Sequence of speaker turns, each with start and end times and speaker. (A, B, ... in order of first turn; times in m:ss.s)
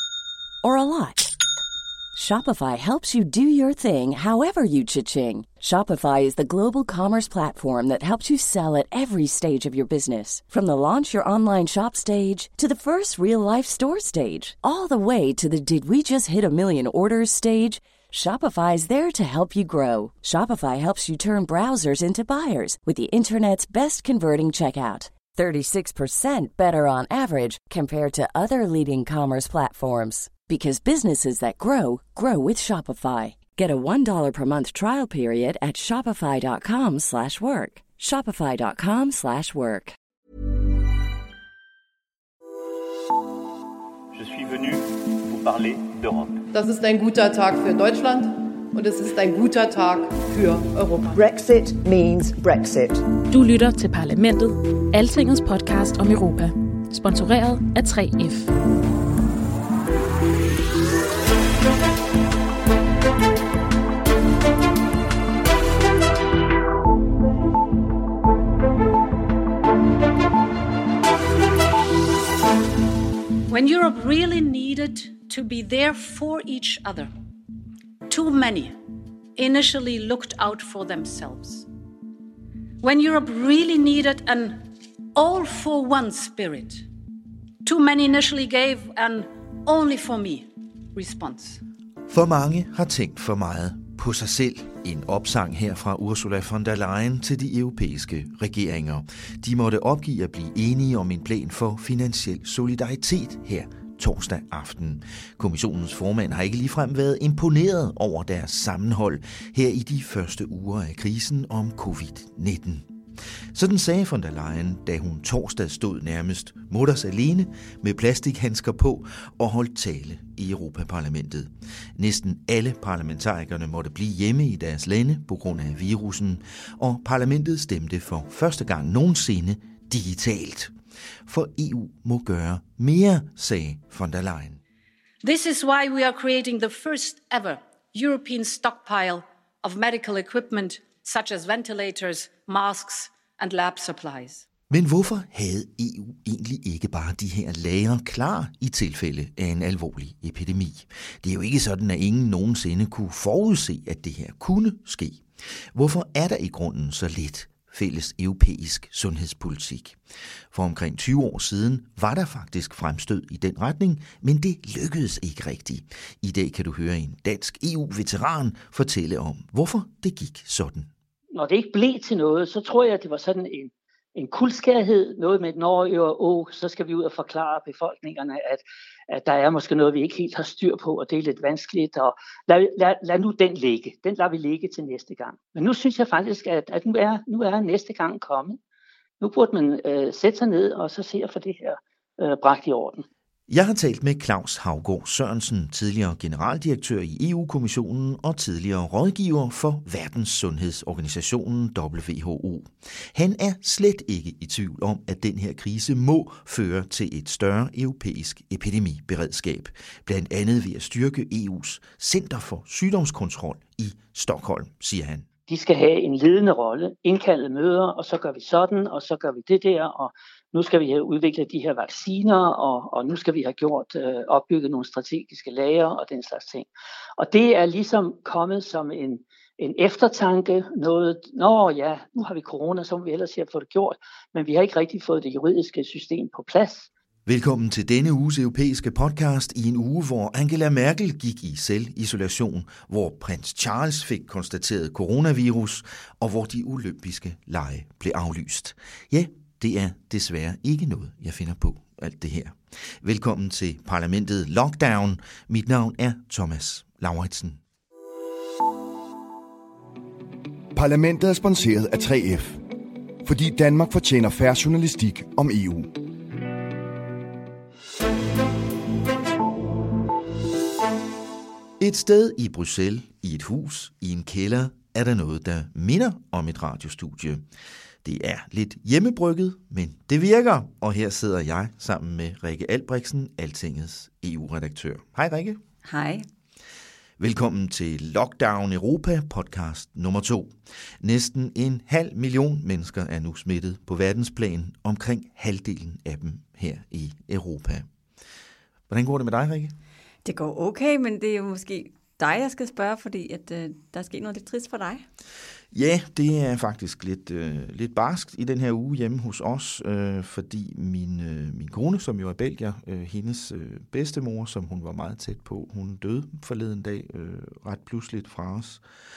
0:00.6-0:01.3 A
0:02.1-0:40.0 A
0:44.1-0:46.4 B
0:46.5-0:51.3 C
0:51.1-0:53.1 D
0:53.3-0:58.5 E
1:13.5-1:17.1 F
1:18.1-1:18.8 F
1:19.4-1:21.7 F
1:22.8-1:24.6 F
1:25.2-1:26.8 F
1:27.6-1:31.6 F
1:32.1-2:10.7 G
2:11.3-2:14.6 G
2:15.2-2:24.4 F
2:24.7-2:40.0 G
2:40.5-2:50.9 G
2:51.4-3:08.6 H
3:09.2-3:13.0 H
3:13.5-3:35.3 G
3:35.5-3:56.9 H
3:57.3-4:17.6 G
4:20.7-4:22.6 I
4:23.2-4:25.9 I
4:31.8-4:37.4 G
4:38.0-4:45.6 G
4:45.8-4:46.2 J
4:47.2-4:57.9 G
4:58.9-4:59.7 G
5:00.2-5:05.0 J
5:05.7-5:18.8 G